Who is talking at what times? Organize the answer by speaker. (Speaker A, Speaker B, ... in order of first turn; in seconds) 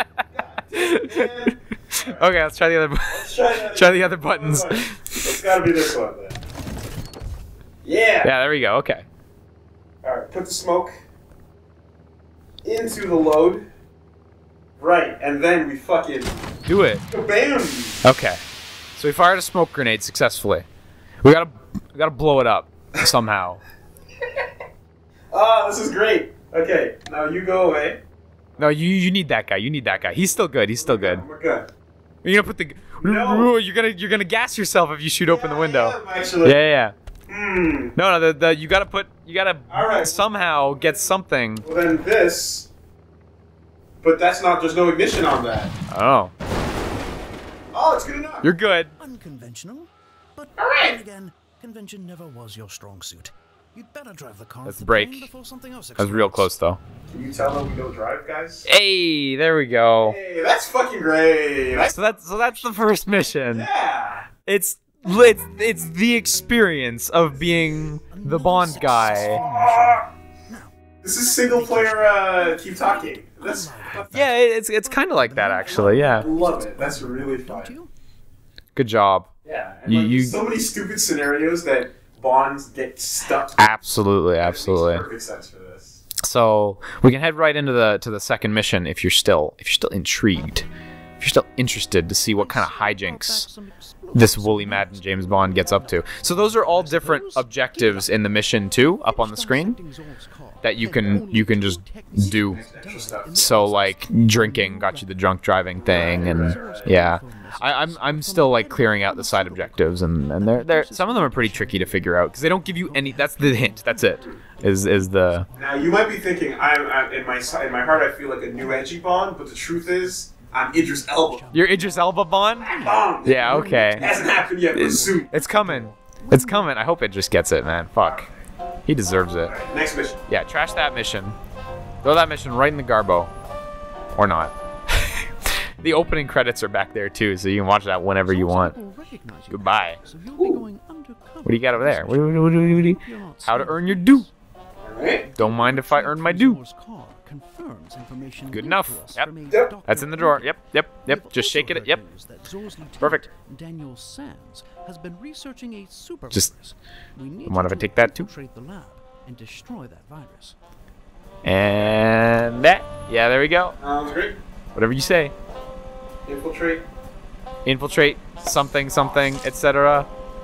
Speaker A: 0.3-2.2, 3.0-6.4, 7.8-8.3, 10.0-10.9, 12.6-13.7, 14.8-16.5, 17.1-18.0, 25.3-28.0, 29.9-31.7, 33.0-33.5, 35.2-36.6, 37.3-37.9, 39.7-41.1, 41.6-42.7, 44.0-45.7, 47.7-48.5, 50.6-51.0, 57.1-58.7, 60.0-62.0, 63.5-64.3, 67.3-67.7, 69.0-70.1, 71.0-74.1, 75.7-77.8, 79.4-86.0, 102.2-103.5, 105.8-107.0, 115.5-121.4, 122.6-125.3, 128.0-128.3, 129.4-130.2, 140.3-140.6, 144.8-145.3, 163.8-164.4, 166.2-166.8
Speaker B: 0.8-1.3, 1.9-5.3, 8.2-9.1, 16.6-17.0, 18.0-18.4, 19.0-20.6, 21.2-23.6, 28.6-31.2, 32.2-36.9, 38.0-41.6, 45.9-46.3, 48.4-48.9, 54.6-55.3, 56.0-56.8, 58.6-60.2, 61.8-63.7, 64.5-69.4, 74.1-76.3, 78.8-79.3, 79.8-80.4, 83.6-85.0, 86.2-90.7, 91.2-93.5, 94.1-99.8, 100.6-102.6, 103.3-115.5, 121.5-122.7, 123.2-124.1, 124.7-128.2, 128.8-129.5, 130.3-131.3, 132.0-133.3, 134.1-138.8, 139.5-140.0, 141.4-144.3, 145.4-146.6, 148.5-149.3, 149.9-152.0, 153.0-153.3, 157.4-158.3, 161.4-163.8, 164.7-165.3, 167.6-170.1
Speaker C: 49.0-56.5, 62.0-63.4, 68.1-77.9, 92.3-105.1, 105.9-112.0, 112.7-115.8, 121.0-126.7, 138.2-144.3, 145.2-160.6